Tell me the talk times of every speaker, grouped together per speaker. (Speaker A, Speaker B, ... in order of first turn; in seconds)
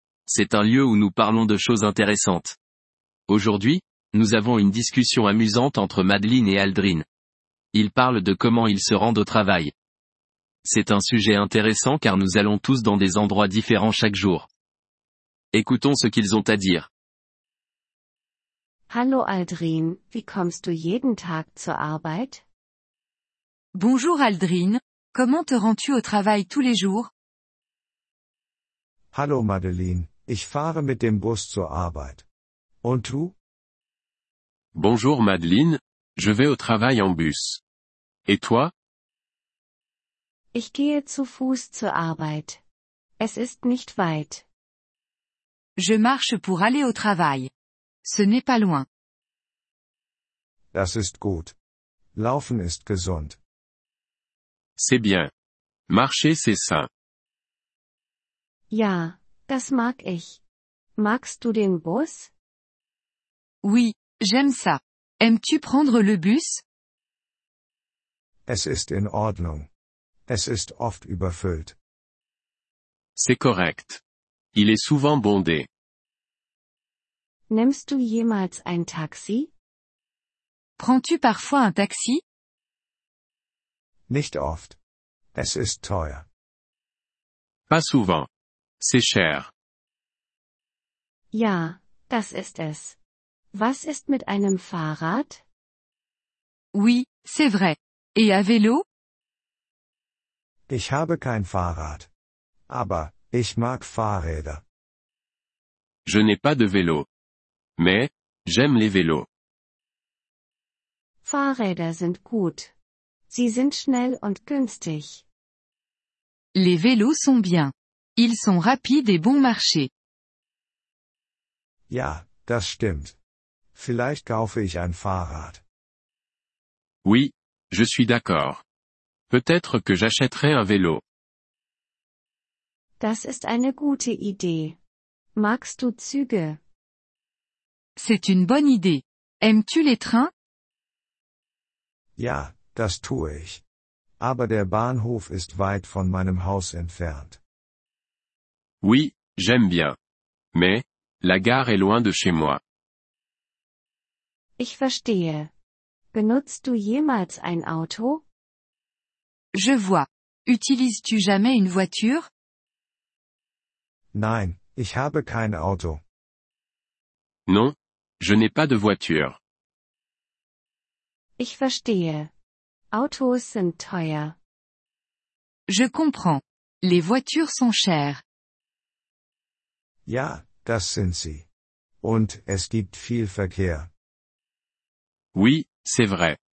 Speaker A: 0.3-2.6, 3.3-7.0, 7.7-9.7, 10.6-14.5, 15.5-16.9
Speaker B: 18.9-22.4, 40.5-42.6, 43.2-44.5, 58.7-60.4, 61.0-62.3, 77.5-79.5, 91.3-93.0, 93.5-95.4, 111.2-112.7, 113.3-115.2, 133.0-134.8, 135.4-136.6, 154.6-155.5, 156.1-158.2, 171.4-172.3, 172.9-174.4
Speaker C: 23.8-27.1, 45.8-47.5, 48.0-48.9, 63.6-66.6, 80.8-82.2, 96.7-98.8, 116.5-119.9, 138.0-140.3, 159.5-162.3, 175.7-178.2
Speaker D: 29.1-32.3, 32.8-33.4, 50.7-51.6, 52.1-53.4, 68.5-69.7, 70.3-71.8, 84.1-84.8, 85.3-86.3, 100.7-102.1, 102.7-104.6, 121.9-123.2, 123.7-125.6, 142.2-143.6, 144.2-147.4, 164.1-166.0, 180.1-181.5, 182.0-183.9
Speaker E: 34.7-37.6, 38.3-38.7, 54.8-55.3, 55.9-56.9, 73.2-74.0, 74.5-75.7, 87.7-88.3, 88.8-89.5, 106.1-107.1, 107.8-109.3, 127.0-128.6, 129.3-131.0, 148.8-150.0, 150.5-152.6, 167.5-169.4, 185.3-186.4